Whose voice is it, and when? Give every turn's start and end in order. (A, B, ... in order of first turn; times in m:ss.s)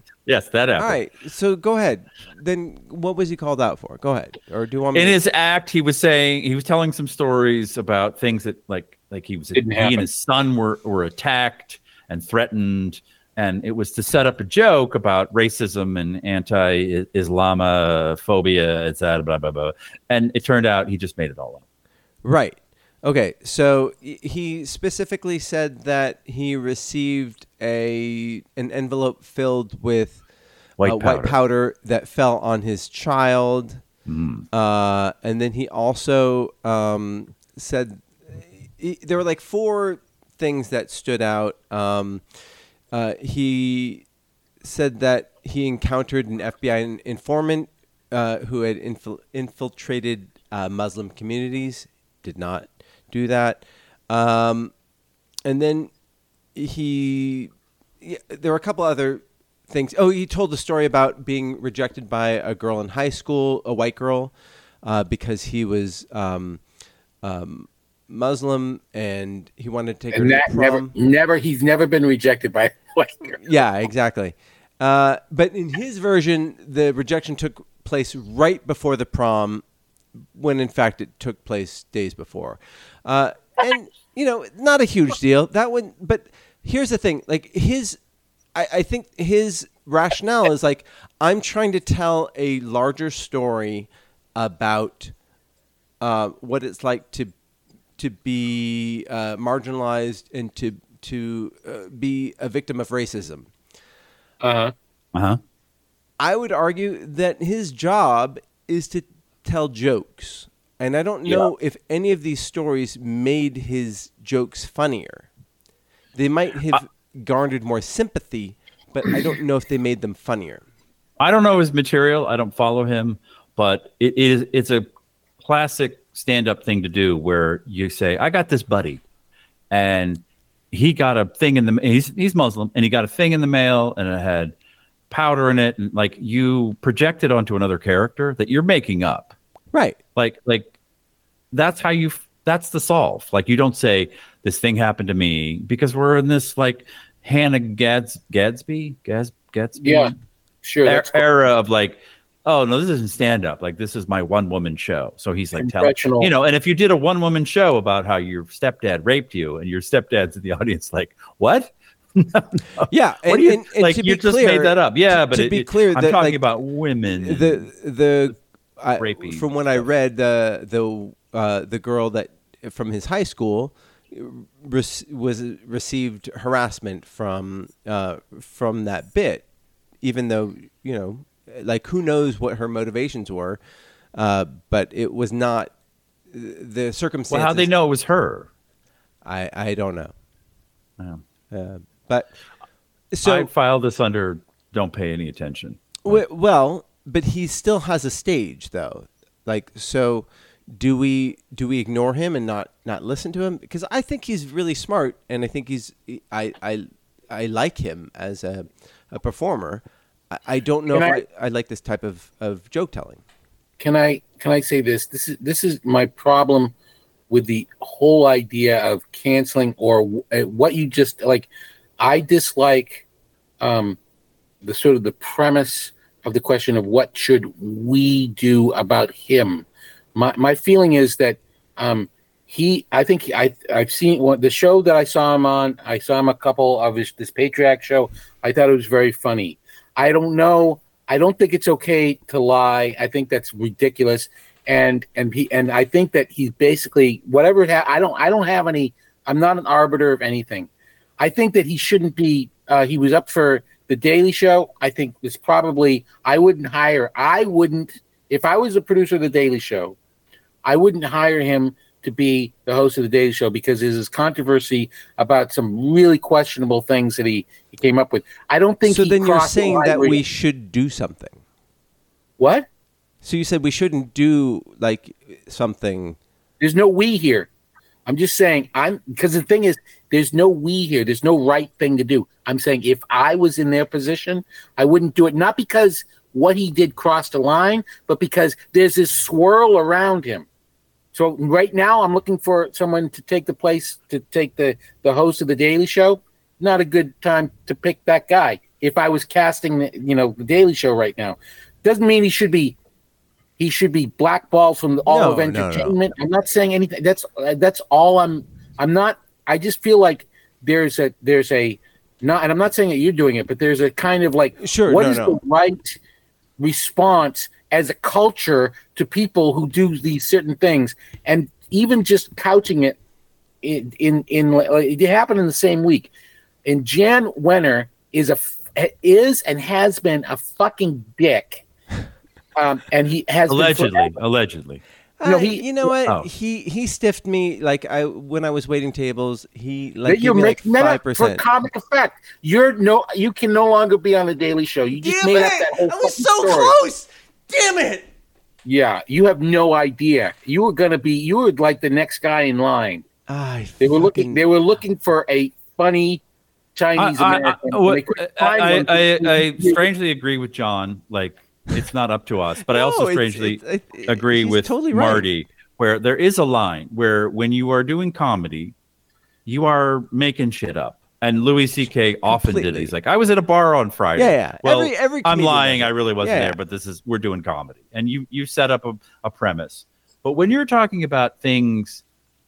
0:00.2-0:01.0 A
0:00.8-0:05.2 B
0:04.9-0:21.6 A
0:09.5-0:10.0 C
0:22.2-0:30.2 B
0:30.8-0:31.4 A
0:30.8-0:33.8 B
0:34.0-0:34.4 A
0:34.5-0:42.2 B
0:42.9-0:44.0 B
0:44.6-0:54.7 B
0:55.4-0:55.9 B
0:56.5-1:06.6 B
1:07.2-1:10.9 B
1:10.1-1:13.4 C
1:13.4-1:19.6 B
1:20.3-1:28.0 B
1:28.5-1:35.1 B
1:36.0-1:37.3 B
1:38.0-1:43.5 B
1:44.4-1:44.7 C
1:45.1-1:45.4 A
1:46.2-1:55.3 B
1:56.1-2:00.6 B
2:01.2-2:04.8 A
2:05.4-2:09.0 A
2:09.7-2:14.5 A
2:15.1-2:19.3 A
2:19.7-2:20.0 B
2:20.2-2:20.7 A
2:21.5-2:30.1 A
2:29.8-2:31.2 C
2:30.8-2:47.6 A
2:35.6-2:36.3 C
2:42.9-2:46.4 B
2:47.1-2:59.4 B
2:49.0-2:49.8 A
3:00.0-3:03.6 B
3:04.1-3:05.7 B
3:06.3-3:07.7 B
3:07.3-3:08.5 A
3:09.2-3:10.1 B
3:11.5-3:12.3 B
3:13.1-3:13.5 B
3:13.2-3:16.2 A
3:16.0-3:33.2 B
3:30.9-3:31.2 C
3:33.8-3:36.7 C
3:37.3-3:41.5 C
3:42.0-3:43.0 C
3:43.6-3:44.0 C
3:44.6-4:10.7 C
4:11.2-4:20.0 C
4:20.6-4:30.2 C
4:28.9-4:31.4 B
4:32.4-4:32.6 C
4:33.2-4:36.2 B
4:36.6-4:37.5 C
4:38.0-4:50.4 C
4:51.1-5:02.8 C
5:03.6-5:16.0 C
5:05.1-5:06.0 B
5:14.6-5:15.4 B
5:16.6-5:23.0 C
5:23.6-5:26.1 C
5:26.6-5:31.6 C
5:32.6-5:34.1 C
5:33.5-5:34.8 A
5:35.2-5:41.4 B
5:35.2-5:35.9 C
5:40.0-5:46.7 C
5:45.0-5:48.0 B
5:48.6-5:53.0 C
5:53.3-5:54.4 B
5:53.8-5:56.2 C
5:56.8-5:59.8 C
5:57.0-6:08.7 A
6:02.6-6:05.3 B
6:09.4-6:22.0 A
6:12.2-6:12.9 B
6:14.2-6:16.6 B